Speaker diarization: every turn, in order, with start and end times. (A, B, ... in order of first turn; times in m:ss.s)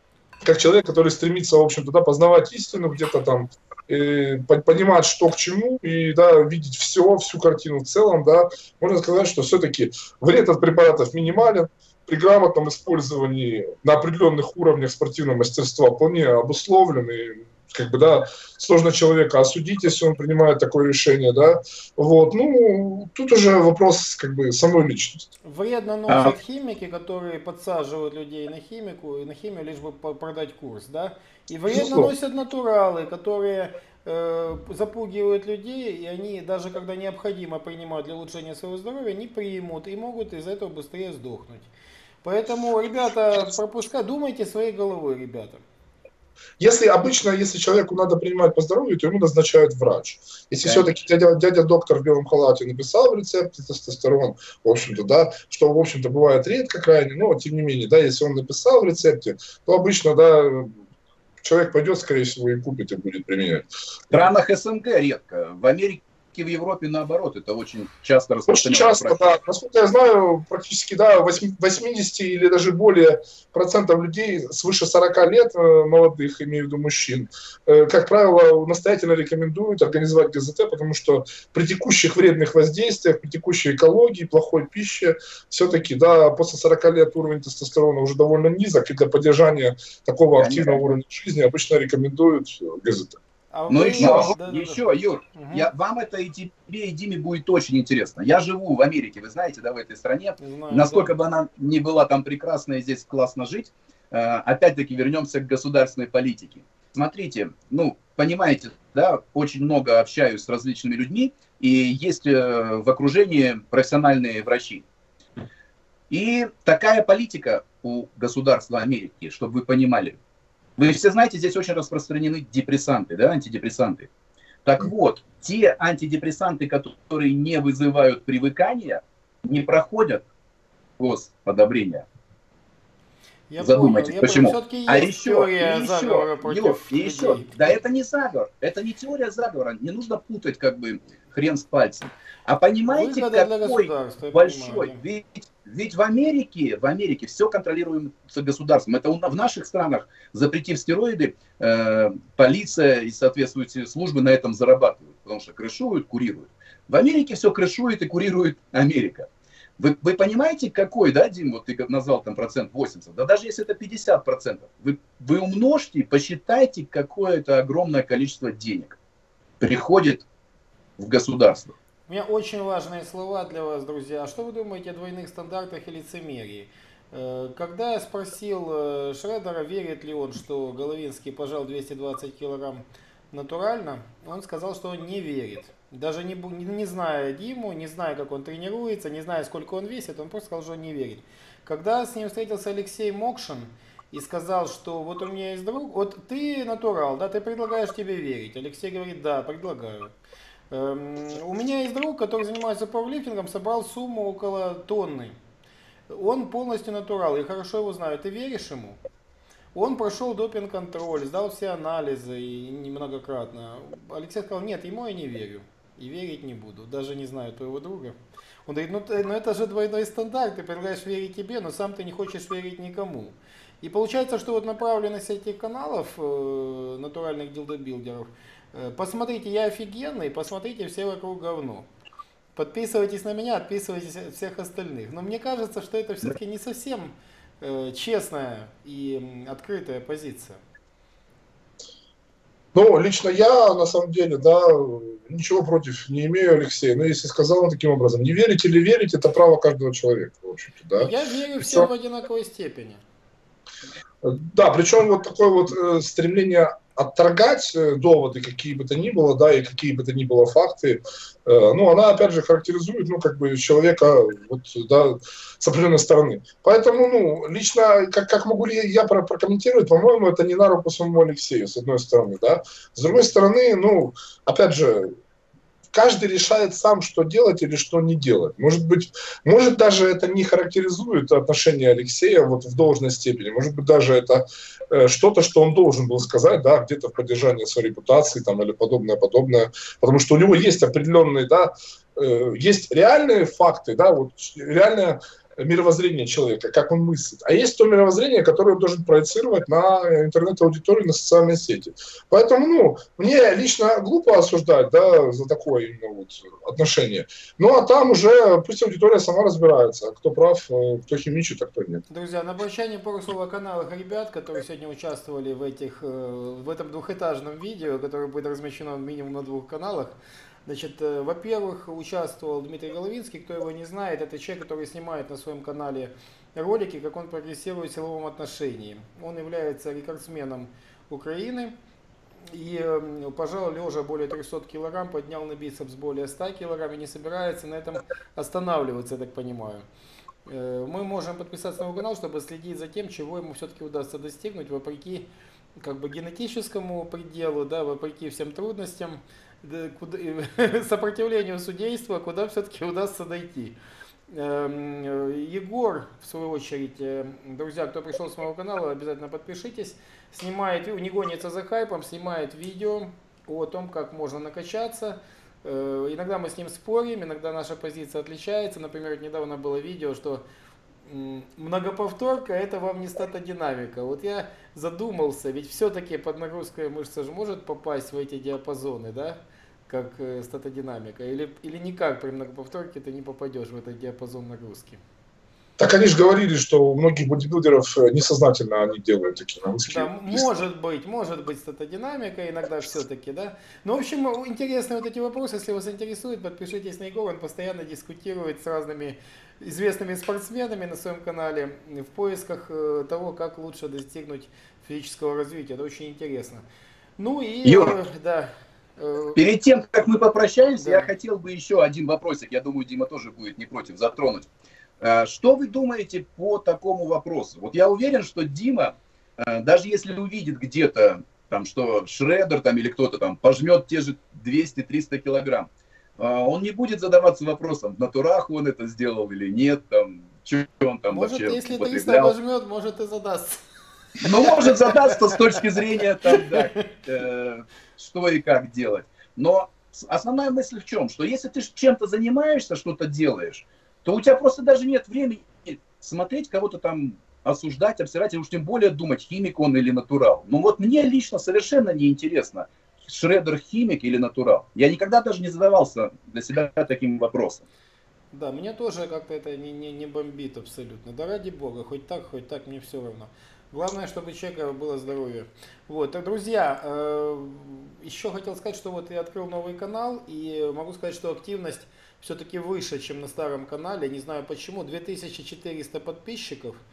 0:00.4-0:25.3 A
0:25.4-0:41.7 B
0:26.1-0:26.4 C
0:31.7-0:32.1 A
0:42.2-0:45.6 B
0:46.6-1:00.7 A
1:01.4-1:04.2 A
1:04.1-1:09.2 C
1:08.5-1:33.2 A
1:30.4-1:30.8 C
1:33.5-1:35.7 B
1:33.7-1:54.8 C
1:34.0-1:34.3 A
1:40.4-1:41.1 B
1:56.1-2:00.2 C
2:00.8-2:04.1 C
2:04.6-2:10.2 C
2:11.0-2:12.1 C
2:13.5-2:17.6 B
2:13.6-2:49.0 C
2:22.9-2:25.0 B
2:49.6-2:50.2 C
2:51.0-2:51.7 C
2:52.1-3:20.1 B
3:20.7-3:25.4 B
3:26.1-3:29.0 B
3:29.8-3:51.9 B
3:52.6-4:00.6 B
4:02.7-4:11.9 A
4:11.0-4:13.0 B
4:14.2-4:35.1 A
4:35.9-5:12.0 A
5:12.1-5:31.7 B
5:32.5-5:39.8 B
5:40.5-5:53.8 B
5:54.3-6:10.4 B
6:11.1-6:25.0 B
6:25.8-6:30.5 A
6:29.9-6:46.6 B
6:47.2-6:49.4 B
6:47.6-6:48.0 C
6:49.4-6:54.5 C
6:50.8-6:51.1 B
6:55.0-7:12.4 C
7:11.1-7:13.6 B
7:14.2-7:16.8 B
7:14.2-7:37.6 C
7:38.3-7:56.8 B